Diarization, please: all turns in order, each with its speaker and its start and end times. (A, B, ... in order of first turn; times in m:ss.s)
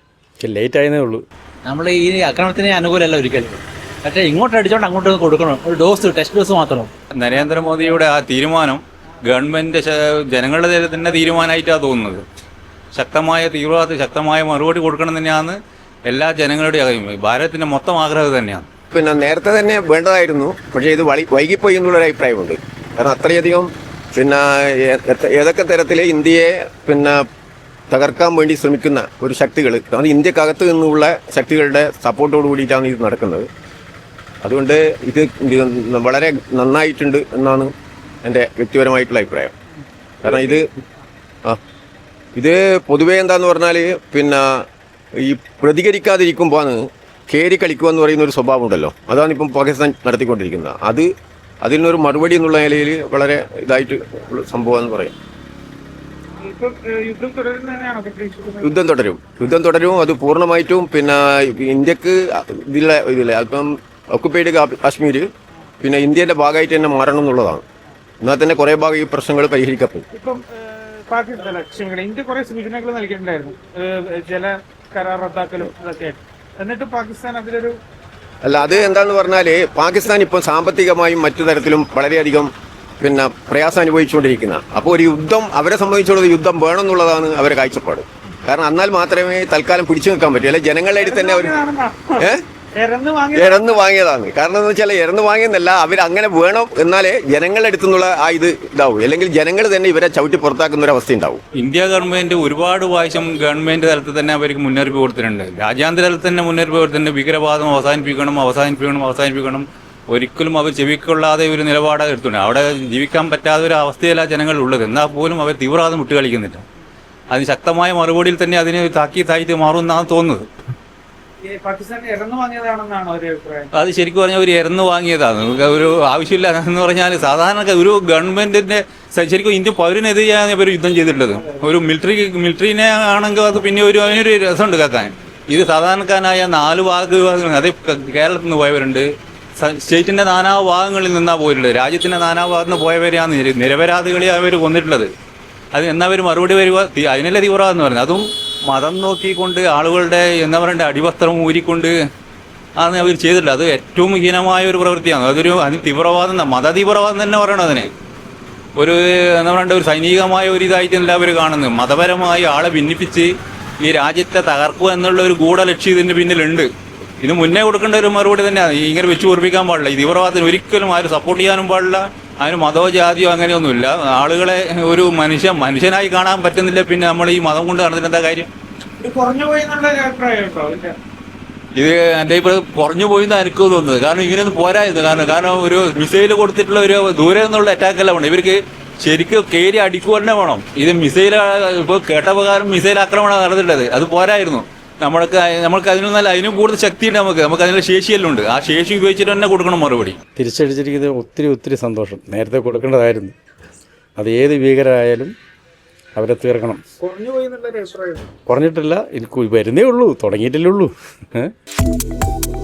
0:00.4-0:01.2 A
0:01.6-0:06.9 B
0:07.1-0:12.2 C
0:12.9-0:15.6 C
0:16.1-0:18.6 C
0:18.9-0:27.2 D
0:27.9-0:33.4 D
0:34.4-0:37.7 D
0:38.2-0:39.5 D
0:40.2-0:40.6 D
0:42.4-0:44.6 D
0:45.2-0:51.1 D
0:51.6-0:55.1 D
0:56.4-0:58.6 E
0:58.6-1:05.2 D
1:05.8-1:07.6 D
1:08.2-1:10.0 D
1:10.1-1:17.7 E
1:18.4-1:31.6 D
1:31.0-1:33.7 E
1:33.3-1:41.4 D
1:41.5-1:56.6 C
1:57.3-2:00.4 C
2:01.4-2:03.7 E
2:03.8-2:19.1 C
2:19.6-2:25.1 C
2:25.7-2:31.9 C
2:32.8-2:37.9 C
2:38.8-2:46.7 C
2:47.2-2:58.5 C
2:59.0-3:00.9 E
3:01.8-3:20.2 C
3:20.4-3:23.3 A
3:24.2-3:25.3 A
3:26.2-3:26.8 A
3:27.0-3:28.3 E
3:28.5-3:31.5 A